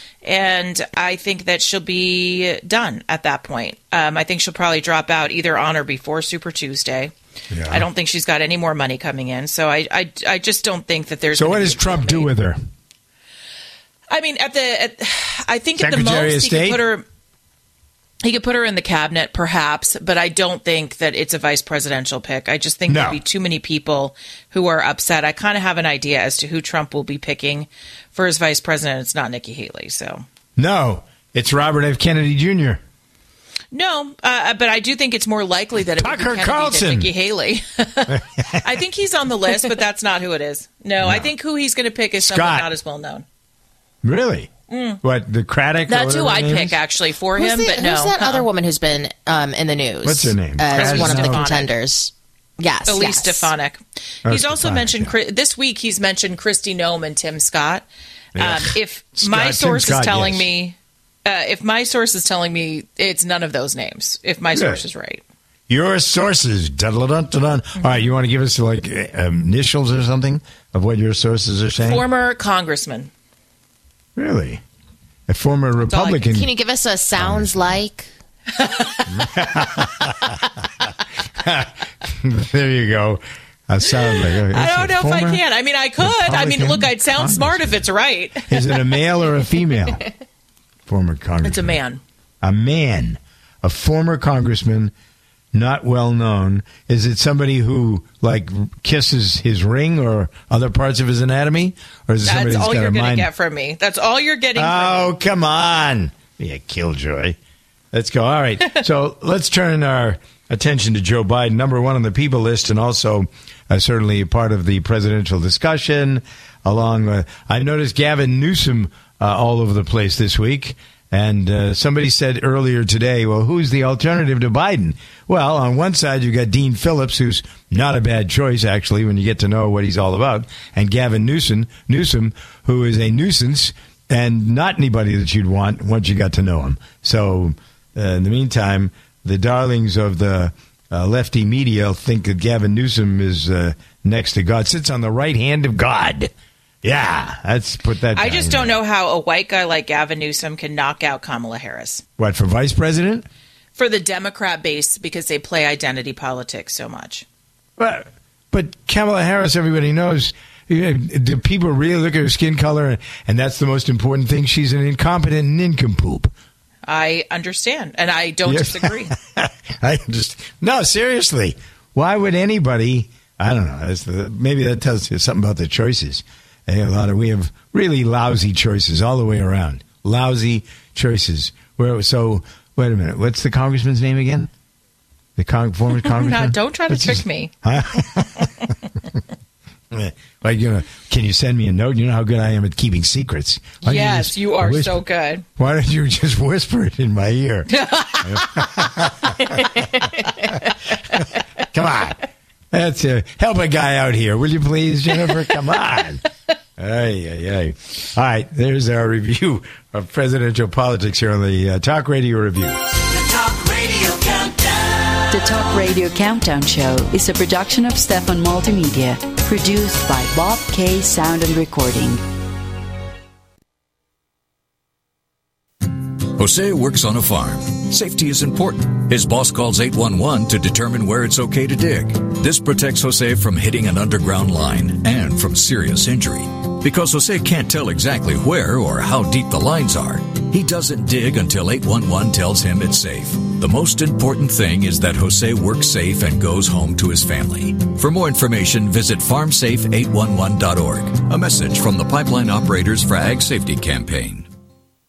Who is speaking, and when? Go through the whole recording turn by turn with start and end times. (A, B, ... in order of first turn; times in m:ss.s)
0:00.2-0:07.1 A
0:07.5-0:07.9 B
0:07.7-0:12.3 A
0:11.4-0:12.6 B
0:14.1-0:17.0 A
0:15.8-0:16.8 B
0:18.2-0:30.2 A
0:22.9-0:23.2 B
0:30.6-0:32.8 B
0:33.7-0:43.2 A
0:36.0-0:37.1 B
0:41.0-0:41.3 B
0:42.2-0:42.7 B
0:44.0-0:44.5 B
0:44.7-0:45.0 A
0:45.0-0:46.8 B
0:45.9-0:48.5 A
0:47.4-0:53.5 C
0:50.0-0:51.5 B
0:50.7-0:51.7 A
0:52.9-0:57.9 A
0:54.3-0:55.1 B
0:58.4-1:00.5 B
0:58.4-1:05.2 A
1:04.5-1:04.8 B
1:05.7-1:12.0 B
1:07.8-1:08.1 A
1:11.8-1:13.1 A
1:14.2-1:14.6 B
1:15.3-1:16.5 B
1:15.8-1:16.2 A
1:16.3-1:18.1 C
1:17.2-1:17.8 B
1:18.6-1:19.6 A
1:19.2-1:20.2 B
1:21.4-1:25.4 B
1:23.9-1:29.0 A
1:26.0-1:27.8 B
1:28.5-1:30.0 B
1:30.9-1:31.8 B
1:31.4-1:32.0 A
1:32.4-1:34.9 B
1:35.5-1:43.3 B
1:42.2-1:45.1 A
1:44.6-1:47.4 B
1:47.9-2:26.3 B
2:26.8-2:28.8 B
2:28.1-2:32.0 A
2:32.2-2:33.3 B
2:33.8-2:37.3 A
2:37.8-2:46.3 B
2:46.9-2:49.1 A
2:48.5-3:04.5 B
3:05.4-3:08.5 B
3:06.0-3:07.5 A
3:09.9-3:15.0 B
3:13.8-3:15.4 A
3:15.6-3:17.7 B
3:17.7-3:20.7 A
3:18.2-3:19.7 B
3:21.7-3:26.2 B
3:26.8-3:32.8 B
3:35.3-3:42.2 D
3:46.4-4:14.5 E